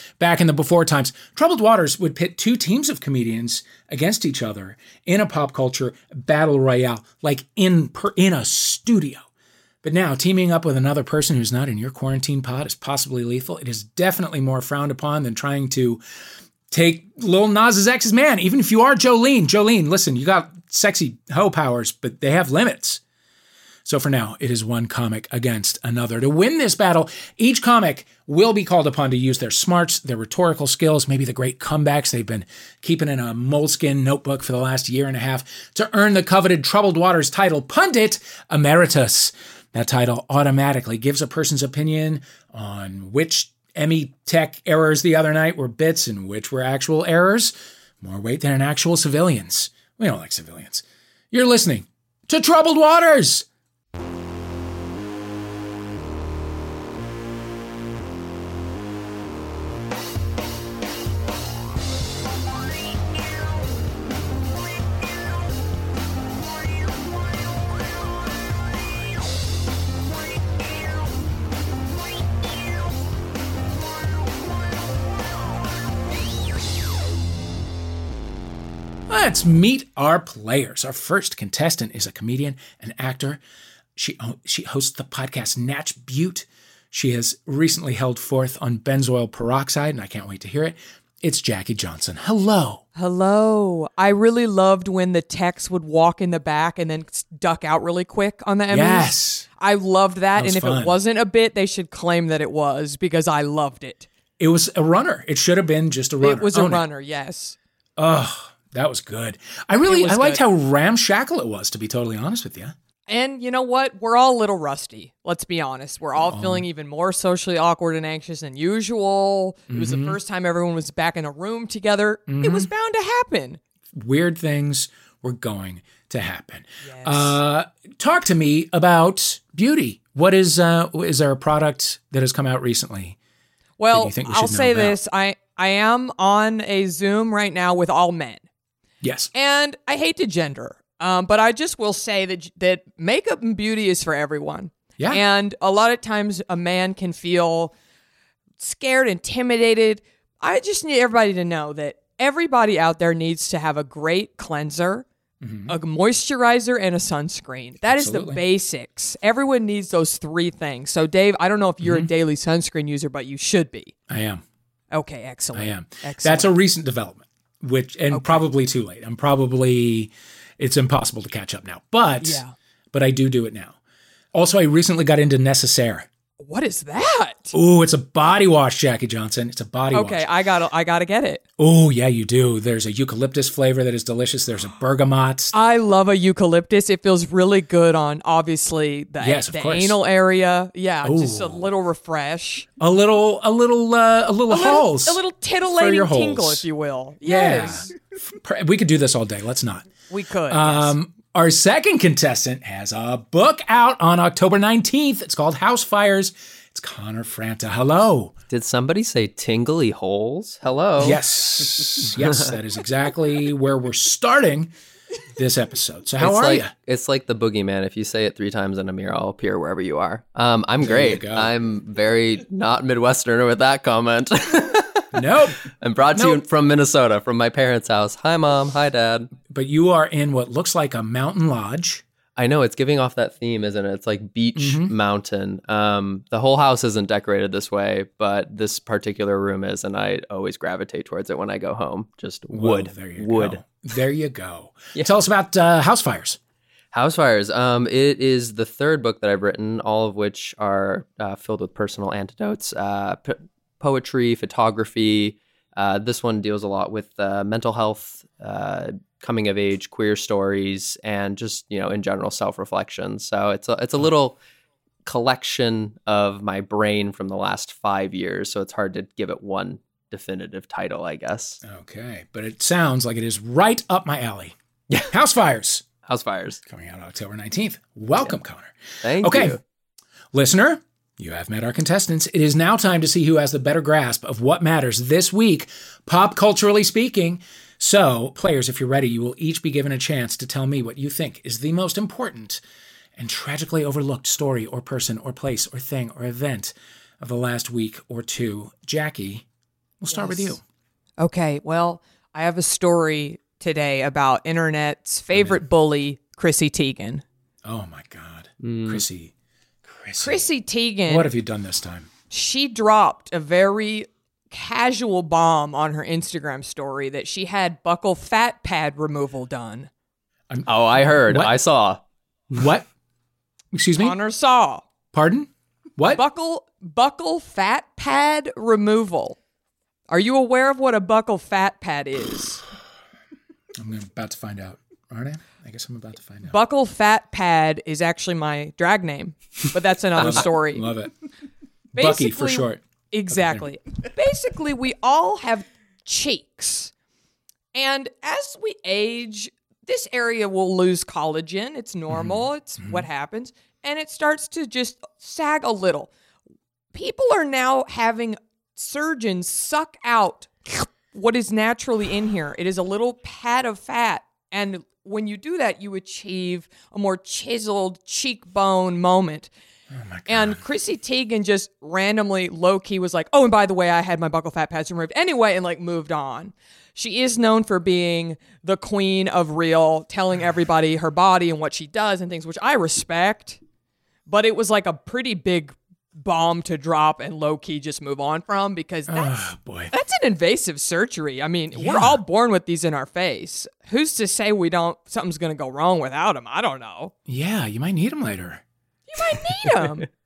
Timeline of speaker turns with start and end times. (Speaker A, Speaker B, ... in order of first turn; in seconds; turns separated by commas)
Speaker A: 0.2-9.2, Speaker A: 9.8-16.0, Speaker A: 16.7-23.0, Speaker A: 23.8-53.5, Speaker A: 79.1-83.4, Speaker A: 84.0-92.8, Speaker B: 93.0-104.0, Speaker A: 98.7-99.5, Speaker A: 100.3-101.0, Speaker A: 104.4-106.8, Speaker B: 106.2-107.5, Speaker A: 108.0-112.7, Speaker B: 109.8-110.4, Speaker B: 113.1-123.6, Speaker A: 116.2-116.7, Speaker A: 119.7-120.2, Speaker A: 122.3-122.7, Speaker A: 124.0-133.2, Speaker B: 126.8-127.4, Speaker B: 133.8-138.4, Speaker A: 133.9-135.0, Speaker A: 139.0-139.3, Speaker B: 139.3-147.7, Speaker B: 148.6-155.0, Speaker A: 155.4-155.8, Speaker B: 155.7-163.9, Speaker A: 157.9-158.4, Speaker A: 161.8-162.1, Speaker A: 164.1-164.4, Speaker B: 164.9-166.5, Speaker A: 165.5-172.4, Speaker B: 168.1-168.4, Speaker B: 172.2-172.5, Speaker A: 172.9-173.8, Speaker A: 174.3-176.1, Speaker B: 176.4-177.5, Speaker A: 177.5-180.3, Speaker B: 179.9-181.4, Speaker A: 181.6-185.5, Speaker B: 185.5-192.7, Speaker A: 189.2-190.0, Speaker A: 191.0-191.7, Speaker A: 192.8-196.6, Speaker B: 194.5-197.9, Speaker A: 197.2-199.9, Speaker B: 200.1-200.9, Speaker A: 200.5-208.3, Speaker C: 208.5-211.2, Speaker A: 211.0-214.7, Speaker A: 215.3-216.7, Speaker C: 216.2-225.1, Speaker A: 220.8-221.5, Speaker A: 225.1-225.6, Speaker C: 225.7-229.3, Speaker A: 226.1-226.4, Speaker A: 229.5-232.0, Speaker C: 232.3-243.6, Speaker A: 234.6-234.9, Speaker A: 242.5-246.4, Speaker C: 246.9-264.4, Speaker C: 265.0-271.6, Speaker A: 271.6-275.8, Speaker C: 276.0-276.6, Speaker A: 276.7-279.6, Speaker C: 279.0-279.6, Speaker A: 280.3-292.6, Speaker A: 293.1-299.4, Speaker A: 300.0-300.6, Speaker B: 300.1-300.6, Speaker B: 301.2-307.2, Speaker A: 305.3-305.6, Speaker A: 307.6-309.3, Speaker C: 308.6-309.0, Speaker A: 309.9-310.5, Speaker B: 310.2-311.3, Speaker A: 311.1-312.1, Speaker B: 312.3-319.9, Speaker A: 320.5-321.5, Speaker C: 320.6-322.0, Speaker A: 322.5-322.9, Speaker A: 323.7-324.2, Speaker B: 324.0-324.9, Speaker A: 325.1-326.2, Speaker B: 326.0-329.4, Speaker B: 330.1-332.6, Speaker A: 333.8-336.5, Speaker B: 336.5-340.9, Speaker A: 340.2-341.1, Speaker A: 341.9-343.7, Speaker B: 341.9-346.9, Speaker B: 347.7-356.1, Speaker A: 352.1-353.1, Speaker B: 356.9-369.5, Speaker A: 369.9-370.6, Speaker B: 370.3-383.6, Speaker B: 384.3-397.1, Speaker A: 389.1-389.9, Speaker A: 391.7-392.2, Speaker A: 397.3-398.6, Speaker B: 399.1-400.1